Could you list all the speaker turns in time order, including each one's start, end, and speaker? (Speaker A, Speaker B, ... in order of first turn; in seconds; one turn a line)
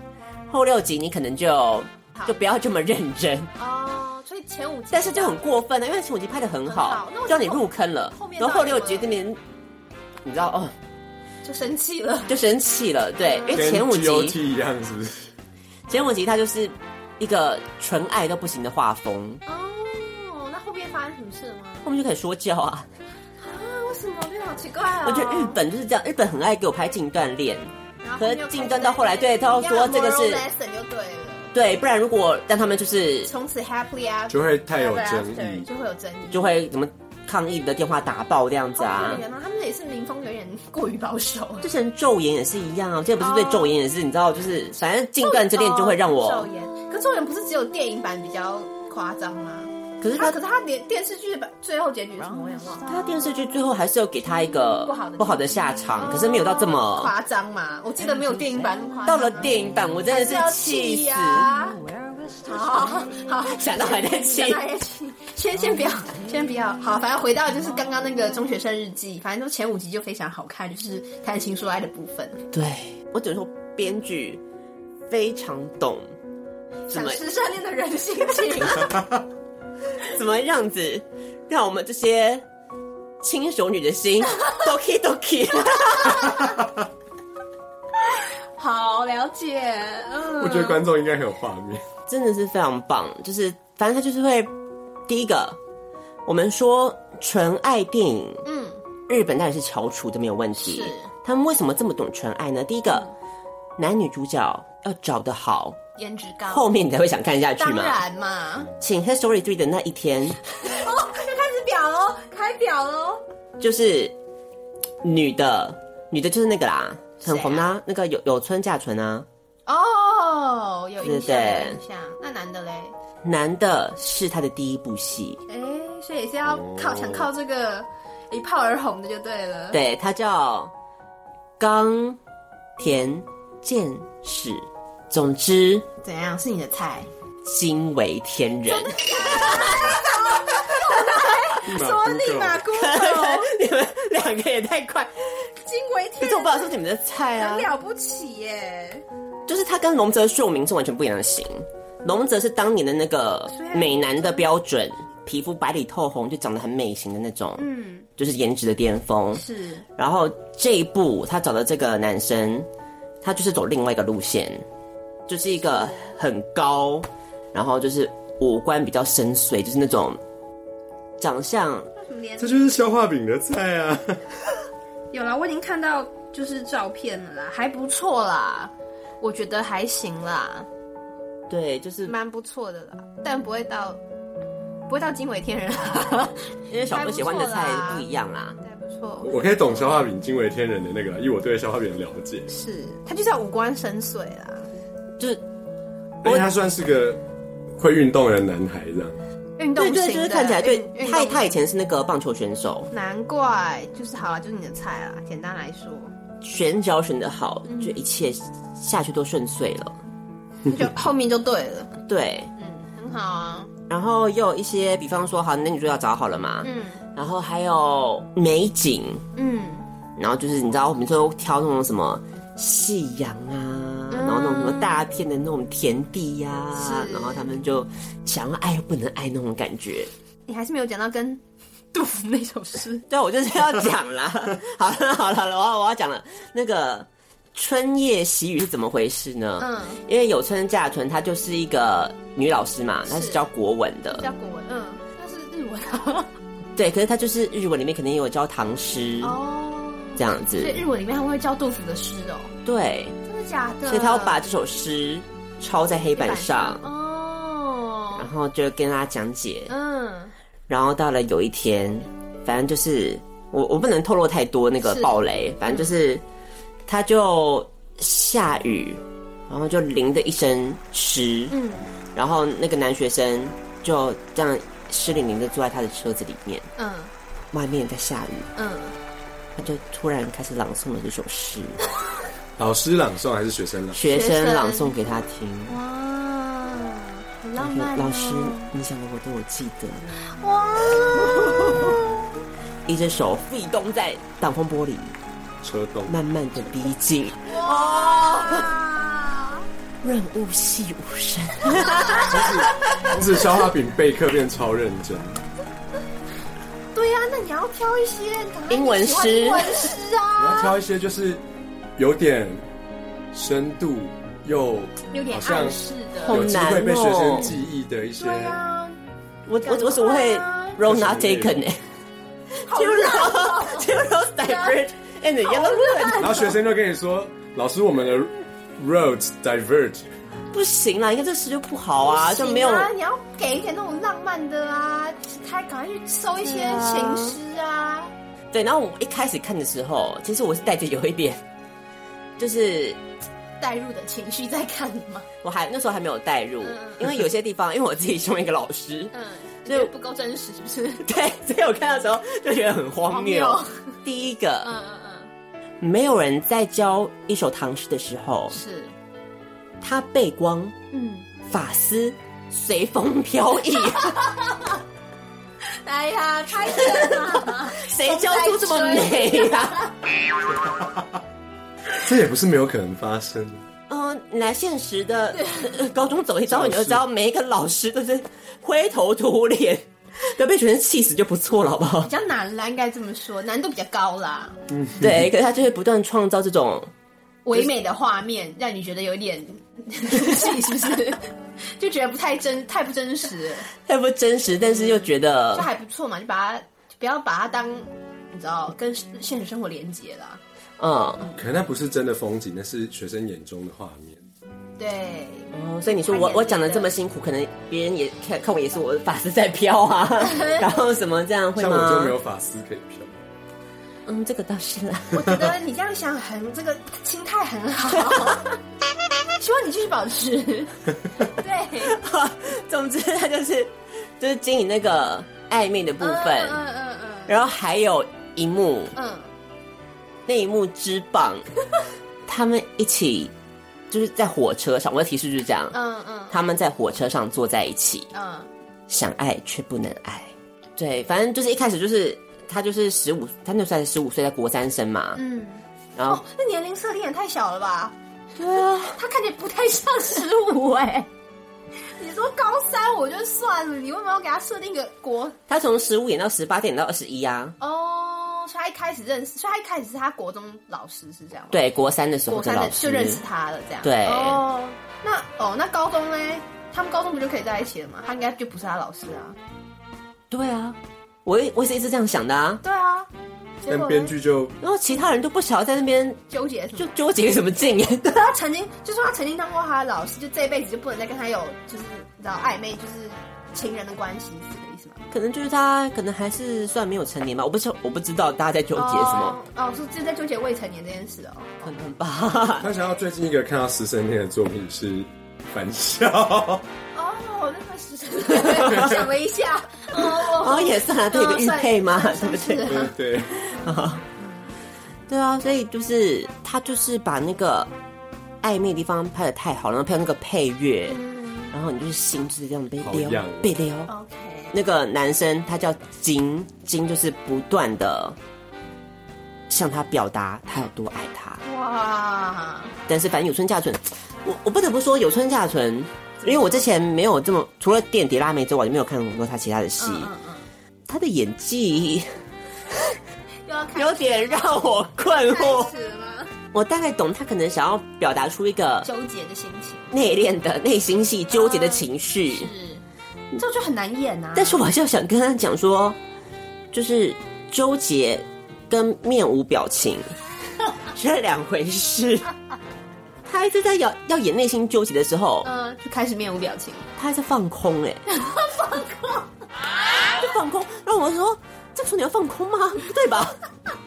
Speaker A: 0.5-3.5
Speaker B: 3.6-5.4
Speaker A: 4.9-9.4
Speaker B: 6.7-9.2
Speaker A: 10.2-10.7
Speaker B: 11.4-12.3
Speaker A: 12.3-14.4
Speaker B: 13.2-13.7
Speaker C: 13.5-15.3
Speaker A: 15.9-19.4
Speaker B: 19.4-21.9
Speaker A: 21.8-22.9
Speaker B: 23.4-25.6
Speaker A: 25.0-30.4
Speaker B: 28.0-31.5
Speaker A: 31.5-33.3
Speaker B: 33.2-36.6
Speaker C: 34.3-35.7
Speaker A: 36.3-39.2
Speaker B: 38.8-41.7
Speaker A: 41.6-46.5
Speaker B: 43.2-43.8
Speaker B: 45.2-52.9
Speaker A: 50.0-50.3
Speaker A: 52.9-57.1
Speaker B: 54.8-61.8
Speaker A: 59.0-61.5
Speaker B: 62.4-72.4
Speaker A: 63.5-64.6
Speaker A: 72.5-74.4
Speaker A: 75.1-76.1
Speaker A: 76.9-77.2
Speaker B: 76.9-79.0
Speaker A: 80.0-82.4
Speaker A: 83.2-86.4
Speaker B: 88.0-90.8
Speaker C: 90.4-91.8
Speaker A: 92.1-94.5
Speaker A: 95.1-95.6
Speaker A: 96.2-98.4
Speaker B: 98.4-98.8
Speaker A: 99.1-103.1
Speaker B: 100.6-101.1
Speaker A: 103.8-105.8
Speaker B: 106.0-106.7
Speaker A: 106.5-108.0
Speaker B: 107.6-108.7
Speaker A: 108.8-110.4
Speaker B: 110.6-113.2
Speaker A: 113.6-114.1
Speaker A: 115.0-119.2
Speaker B: 117.2-117.7
Speaker B: 119.7-122.9
Speaker A: 121.0-121.8
Speaker A: 123.2-125.4
Speaker B: 125.5-129.8
Speaker C: 126.5-127.2
Speaker A: 129.7-130.7
Speaker A: 131.6-132.2
Speaker A: 132.8-135.8
Speaker B: 136.0-137.1
Speaker A: 137.4-139.9
Speaker B: 138.7-143.5
Speaker C: 141.6-142.7
Speaker A: 142.7-145.1
Speaker B: 145.6-146.8
Speaker A: 146.2-147.7
Speaker B: 147.3-149.0
Speaker A: 149.5-157.6
Speaker B: 153.5-154.4
Speaker B: 157.6-158.1
Speaker A: 158.2-159.4
Speaker B: 159.3-159.8
Speaker A: 160.0-162.7
Speaker A: 163.2-164.6
Speaker A: 165.3-170.2
Speaker A: 171.2-171.9
Speaker B: 172.0-172.6
Speaker C: 172.4-174.3
Speaker B: 175.1-180.7
Speaker A: 181.5-182.1
Speaker B: 182.1-184.0
Speaker B: 184.9-188.0
Speaker A: 186.7-188.6
Speaker B: 188.6-190.0
Speaker C: 189.2-192.5
Speaker B: 192.5-194.7
Speaker C: 196.2-197.2
Speaker C: 197.8-199.2
Speaker B: 199.6-201.5
Speaker A: 199.8-202.9
Speaker B: 202.9-206.1
Speaker A: 206.4-210.0
Speaker B: 207.7-208.0
Speaker B: 210.7-211.9
Speaker A: 212.1-212.5
Speaker B: 212.6-213.7
Speaker A: 213.9-219.2
Speaker B: 216.6-217.0
Speaker B: 219.3-219.9
Speaker A: 220.2-230.1
Speaker B: 224.1-225.0
Speaker B: 226.7-227.5
Speaker B: 230.5-231.4
Speaker B: 231.9-233.1
Speaker A: 233.1-244.2
Speaker B: 239.6-240.0
Speaker B: 243.1-243.4
Speaker B: 244.1-246.3
Speaker A: 246.8-249.4
Speaker B: 249.2-252.5
Speaker A: 250.2-250.8
Speaker A: 252.6-253.2
Speaker B: 253.2-254.4
Speaker A: 253.8-256.9
Speaker B: 256.1-258.3
Speaker A: 258.1-259.7
Speaker B: 259.7-260.3
Speaker A: 260.7-266.2
Speaker B: 264.8-265.9
Speaker A: 266.9-271.5
Speaker B: 271.5-271.9
Speaker A: 272.1-276.7
Speaker B: 276.8-277.1
Speaker A: 277.5-278.5
Speaker B: 278.6-278.9
Speaker A: 279.6-281.8
Speaker C: 282.6-284.0
Speaker A: 283.9-285.8
Speaker B: 284.0-285.0
Speaker B: 285.7-288.7
Speaker A: 287.6-290.1
Speaker B: 290.2-292.1
Speaker A: 292.9-295.1
Speaker C: 295.6-296.1
Speaker A: 296.1-298.7
Speaker B: 297.5-299.6
Speaker A: 300.0-302.3
Speaker B: 301.8-302.6
Speaker C: 302.3-305.4
Speaker B: 306.9-310.7
Speaker A: 308.7-309.8
Speaker C: 310.4-311.4
Speaker C: 311.9-312.7
Speaker C: 313.3-318.6
Speaker B: 315.1-316.4
Speaker A: 316.2-317.5
Speaker B: 318.2-319.0
Speaker A: 319.5-321.8
Speaker B: 319.6-320.8
Speaker C: 320.8-321.6
Speaker B: 322.6-324.8
Speaker A: 322.7-326.4
Speaker B: 325.4-326.5
Speaker C: 326.2-330.1
Speaker A: 330.5-332.9
Speaker B: 332.0-338.1
Speaker A: 336.4-337.4
Speaker A: 338.5-341.4
Speaker A: 342.4-343.0
Speaker B: 343.6-345.3
Speaker A: 345.4-349.1
Speaker B: 346.6-347.2
Speaker B: 349.1-351.0
Speaker A: 349.6-349.9
Speaker A: 351.0-354.7
Speaker B: 353.1-354.0
Speaker B: 354.6-355.3
Speaker A: 355.8-358.6
Speaker B: 358.5-358.9
Speaker A: 359.8-360.7
Speaker B: 360.9-361.3
Speaker A: 361.5-364.2
Speaker B: 363.9-364.7
Speaker B: 365.8-369.9
Speaker A: 366.7-369.9
Speaker C: 370.5-371.2
Speaker C: 372.0-373.6
Speaker A: 373.9-382.1
Speaker B: 375.3-375.8
Speaker C: 376.5-377.0
Speaker B: 382.0-384.6
Speaker C: 384.7-385.3
Speaker A: 385.0-386.9
Speaker B: 387.4-393.7
Speaker A: 393.8-395.7
Speaker B: 394.6-400.4
Speaker A: 400.8-401.2
Speaker C: 401.4-404.3
Speaker B: 404.8-406.9
Speaker A: 405.5-412.1
Speaker B: 410.2-410.7
Speaker C: 411.6-413.1
Speaker A: 414.1-415.3
Speaker B: 415.1-418.5
Speaker A: 418.1-418.4
Speaker B: 419.4-422.0
Speaker A: 421.8-426.6
Speaker B: 426.0-427.4
Speaker A: 427.3-428.9
Speaker B: 428.9-429.3
Speaker A: 430.2-431.4
Speaker A: 432.2-433.3
Speaker A: 433.9-435.8
Speaker B: 435.7-436.3
Speaker A: 436.3-438.1
Speaker B: 438.1-438.5
Speaker A: 438.9-445.2
Speaker B: 445.1-447.9
Speaker A: 445.9-446.2
Speaker A: 448.4-449.0
Speaker B: 448.9-451.1
Speaker B: 452.0-455.4
Speaker A: 455.5-457.5
Speaker B: 457.6-461.6
Speaker A: 461.5-463.2
Speaker B: 462.3-469.4
Speaker A: 463.8-464.4
Speaker A: 470.3-472.6
Speaker B: 472.6-473.1
Speaker B: 473.6-474.1
Speaker C: 473.6-474.6
Speaker A: 474.6-476.2
Speaker B: 476.3-476.9
Speaker A: 476.8-478.1
Speaker B: 478.1-485.0
Speaker A: 485.1-489.4
Speaker B: 488.7-491.7
Speaker A: 491.6-492.7
Speaker C: 492.6-496.6
Speaker B: 496.9-502.9
Speaker A: 498.4-498.9
Speaker A: 499.9-502.7
Speaker C: 502.7-503.3
Speaker A: 503.4-504.0
Speaker B: 504.2-504.5
Speaker A: 505.1-507.7
Speaker A: 508.4-511.0
Speaker B: 510.9-511.5
Speaker A: 511.5-513.9
Speaker C: 512.8-513.5
Speaker B: 513.9-514.5
Speaker A: 514.5-518.2
Speaker A: 519.5-521.4
Speaker B: 521.4-522.7
Speaker A: 522.9-530.1
Speaker B: 526.2-526.6
Speaker B: 529.8-530.5
Speaker A: 530.9-532.1
Speaker B: 533.5-536.3
Speaker A: 533.8-535.7
Speaker A: 536.5-538.9
Speaker B: 538.8-539.9
Speaker A: 539.9-542.5
Speaker B: 541.3-544.6
Speaker A: 544.3-546.0
Speaker A: 546.7-550.1
Speaker A: 550.9-552.3
Speaker A: 553.2-555.5
Speaker B: 555.4-556.9
Speaker A: 557.0-558.0
Speaker B: 558.1-559.3
Speaker A: 560.1-563.4